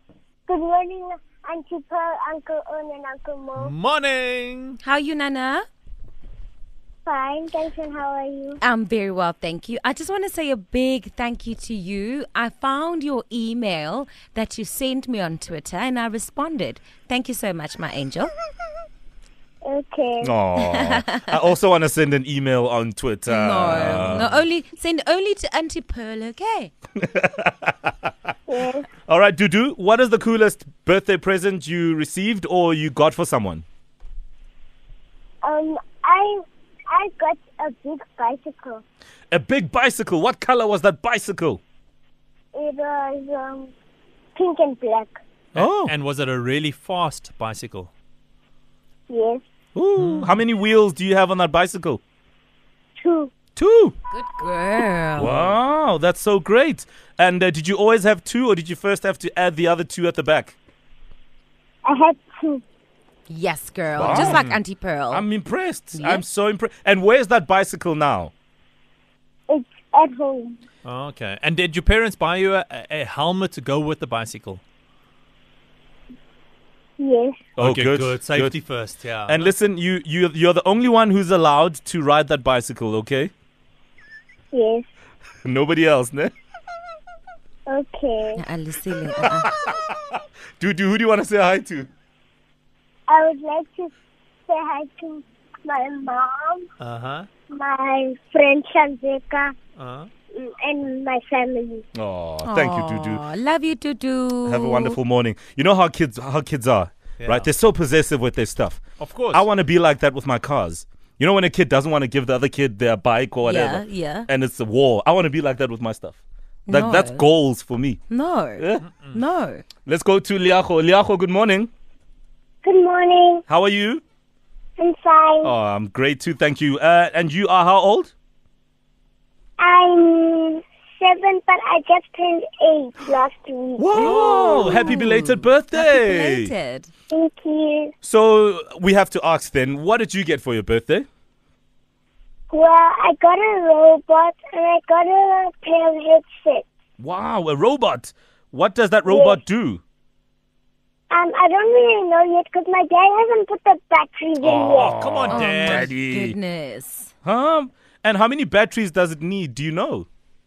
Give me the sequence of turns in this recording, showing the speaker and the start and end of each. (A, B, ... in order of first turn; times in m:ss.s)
0:00.5-0:03.7 A
0:03.6-0:04.8 B
0:04.8-0:05.7 C
0:07.0-0:08.6 A
0:08.6-0:18.3 C
0:19.6-0:20.3 A
0:20.2-0:24.4 D
0:20.6-0:21.0 C
0:23.2-0:26.7 C
0:27.0-0:27.7 D
0:28.5-0:28.9 A
0:29.1-0:33.6 D
0:35.4-0:36.4 A
0:36.9-0:38.8 A
0:39.3-0:41.6 D
0:42.5-0:43.7 A
0:44.4-0:45.1 A
0:45.5-0:47.9 B
0:45.6-0:45.9 D
0:49.1-0:49.4 A
0:49.7-0:52.0 D
0:50.0-0:50.4 B
0:53.0-0:53.3 A
0:53.6-0:53.9 D
0:54.1-0:55.4 C
0:55.2-1:00.6 D
1:01.8-1:02.6 A
1:03.3-1:05.2 C
1:03.9-1:04.4 D
1:04.0-1:04.6 B
1:05.1-1:08.3 D
1:05.9-1:06.2 C
1:09.5-1:10.6 A
1:10.8-1:14.6 B
1:17.0-1:17.4 A
1:17.6-1:18.6 D
1:17.6-1:19.5 B
1:19.2-1:23.3 D
1:24.5-1:24.8 A
1:25.4-1:26.3 D
1:27.7-1:28.4 A
1:28.4-1:29.5 C
1:29.2-1:29.9 D
1:30.6-1:31.9 D
1:33.1-1:33.9 A
1:34.5-1:36.6 A
1:36.8-1:37.3 B
1:37.5-1:39.5 A
1:39.8-1:40.1 B
1:40.3-1:41.8 A
1:41.9-1:43.2 D
1:42.4-1:45.0 C
1:44.4-1:48.8 D
1:47.2-1:47.5 B
1:49.0-1:49.4 B
1:49.3-1:58.0 D
1:53.4-1:54.3 C
1:56.7-1:57.2 C
1:58.1-1:59.6 C
1:58.6-1:58.8 D
1:59.8-2:01.7 D
2:02.6-2:03.4 A
2:03.5-2:04.0 D
2:04.8-2:05.5 A
2:05.4-2:08.1 D
2:09.6-2:14.8 A
2:13.8-2:16.5 D
2:13.9-2:16.9 C
2:17.1-2:17.9 A
2:18.0-2:21.1 D
2:22.5-2:26.6 A
2:27.0-2:29.8 D
2:29.1-2:29.4 A
2:31.1-2:35.0 A
2:34.4-2:36.4 D
2:34.8-2:35.9 B
2:35.3-2:37.1 C
2:37.2-2:40.1 D